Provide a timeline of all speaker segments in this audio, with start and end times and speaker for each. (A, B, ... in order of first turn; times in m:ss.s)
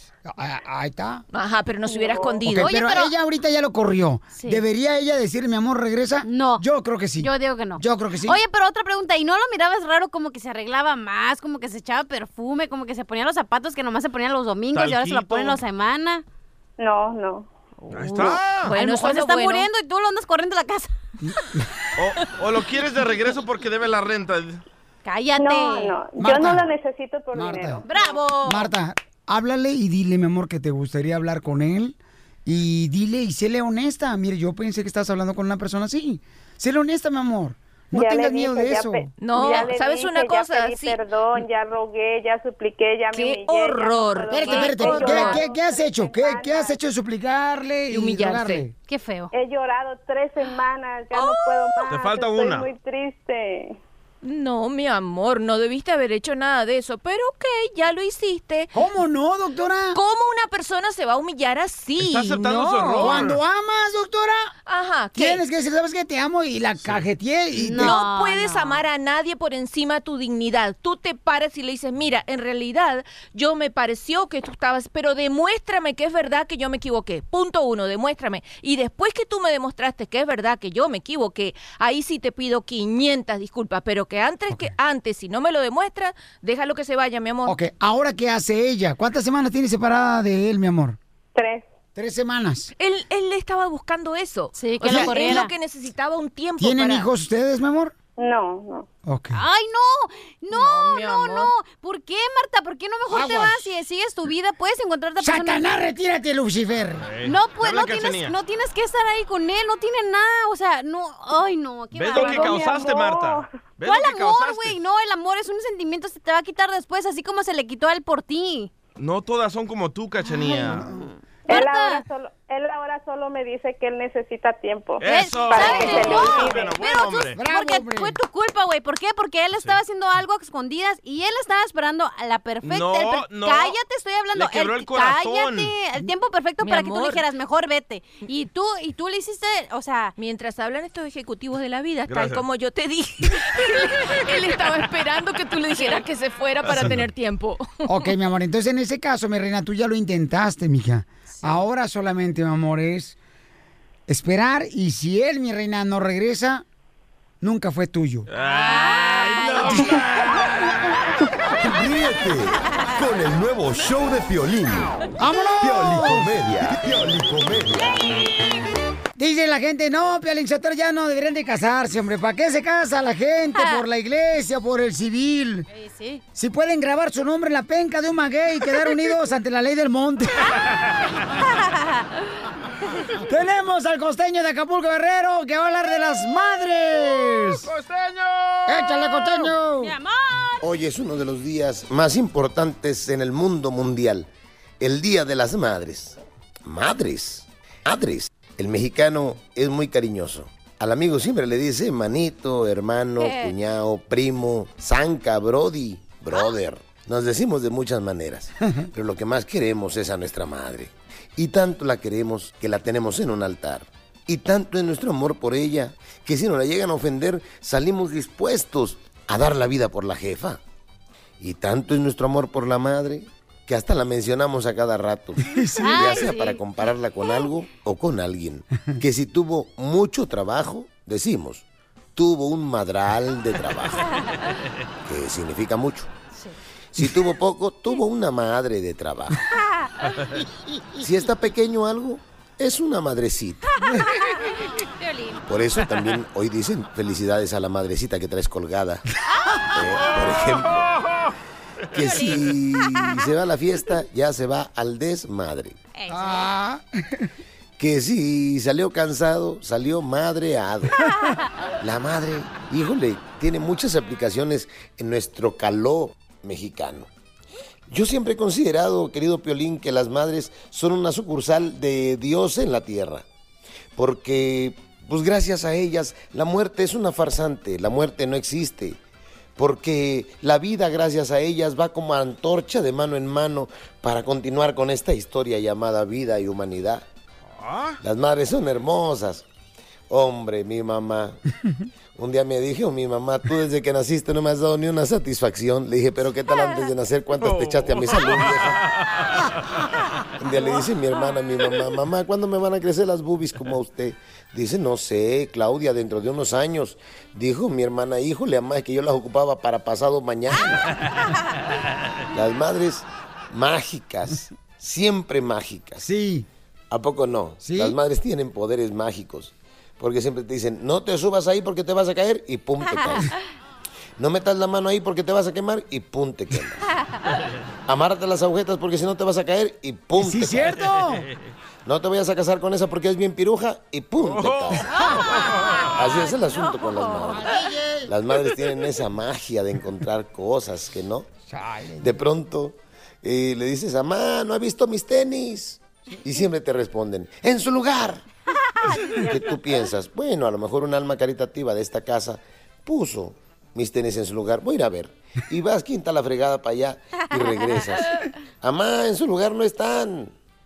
0:00.2-0:01.2 A
0:01.3-0:02.7 B
0:02.4-0:08.4 A
0:02.5-0:03.1 C
0:04.4-0:04.6 C
0:06.2-0:06.6 C
0:07.2-0:16.2 C
0:14.7-0:15.6 D
0:16.8-0:17.5 E
0:17.8-0:20.9 C
0:17.9-0:18.7 D
0:18.6-0:19.7 B
0:21.2-0:21.6 A
0:22.0-0:24.6 D
0:25.0-0:25.9 C
0:25.4-0:27.8 E
0:26.2-0:26.7 A
0:27.3-0:27.9 A
0:27.8-0:28.7 C
0:28.4-0:39.1 A
0:37.9-0:46.8 E
0:39.2-0:41.0 B
0:43.1-0:45.4 B
0:44.3-0:48.7 A
0:47.9-0:48.6 B
0:48.9-0:49.3 C
0:49.3-0:53.8 E
0:51.1-0:51.9 B
0:51.9-0:52.7 D
0:54.2-0:58.7 B
0:58.7-1:00.0 A
0:59.9-1:03.2 B
1:02.0-1:03.4 D
1:03.0-1:04.5 A
1:04.7-1:05.4 B
1:05.1-1:08.0 A
1:07.6-1:08.8 C
1:07.8-1:27.6 B
1:27.4-1:31.0 A
1:31.3-1:31.6 E
1:32.0-1:32.7 A
1:32.8-1:37.1 B
1:34.5-1:35.5 C
1:34.8-1:35.4 A
1:36.6-1:37.9 A
1:38.2-1:38.9 E
1:39.0-1:39.4 A
1:39.3-1:45.7 C
1:40.5-1:41.5 B
1:43.1-1:43.7 A
1:45.2-1:47.1 A
1:47.0-1:48.4 D
1:47.2-1:52.7 C
1:51.9-1:54.8 D
1:52.1-1:53.5 E
1:53.8-1:58.7 C
1:59.0-2:00.9 D
2:00.3-2:02.0 C
2:01.5-2:06.7 E
2:05.0-2:07.4 D
2:05.0-2:20.1 C
2:07.3-2:08.2 A
2:12.6-2:13.8 D
2:14.3-2:15.7 D
2:16.6-2:17.2 B
2:20.2-2:27.8 B
2:22.1-2:22.4 D
2:26.7-2:27.0 D
2:27.9-2:33.2 A
2:34.1-2:36.6 A
2:37.4-2:38.3 A
2:38.3-2:41.0 D
2:38.4-2:40.2 C
2:41.6-2:45.0 F
2:45.2-2:46.4 A
2:45.6-2:48.0 F
2:49.2-2:55.7 A
2:55.7-2:56.2 C
2:56.3-3:00.5 A
3:01.3-3:02.0 C
3:03.2-3:07.7 A
3:07.5-3:09.2 D
3:08.6-3:09.9 A
3:09.8-3:10.6 C
3:10.6-3:14.3 G
3:14.8-3:40.6 G
3:23.2-3:23.5 C
3:41.4-3:54.1 G
3:45.4-3:46.2 A
3:45.8-3:46.6 C
3:55.0-3:56.1 G
3:57.0-3:59.5 G
4:01.0-4:03.7 G
4:03.9-4:05.4 C
4:05.4-4:09.0 G
4:09.4-4:09.6 C
4:09.6-4:10.9 G
4:10.2-4:11.3 D
4:11.9-4:15.8 G
4:12.0-4:13.1 C
4:15.9-4:16.4 C
4:16.1-4:17.3 A
4:17.8-4:21.1 G
4:21.8-4:27.1 G
4:27.9-4:33.2 G
4:34.0-4:39.0 G
4:39.6-4:47.0 G
4:47.6-4:48.0 D
4:48.0-4:49.4 G
4:50.1-4:51.4 G
4:52.2-4:58.8 G
4:57.4-4:59.3 D
5:00.4-5:11.0 G
5:12.3-5:16.0 G
5:16.0-5:16.5 A
5:16.9-5:23.3 G
5:17.6-5:18.0 A
5:22.9-5:23.3 C
5:24.2-5:26.9 G
5:27.9-5:30.8 G
5:30.2-5:31.3 A
5:31.0-5:31.5 D
5:31.8-5:37.5 G
5:34.2-5:36.0 D
5:34.9-5:37.4 C
5:37.2-5:38.1 A
5:38.0-5:41.3 G
5:41.5-5:42.2 A
5:42.0-5:48.2 G
5:48.8-5:49.5 C
5:49.1-6:00.3 G
5:57.2-5:57.8 C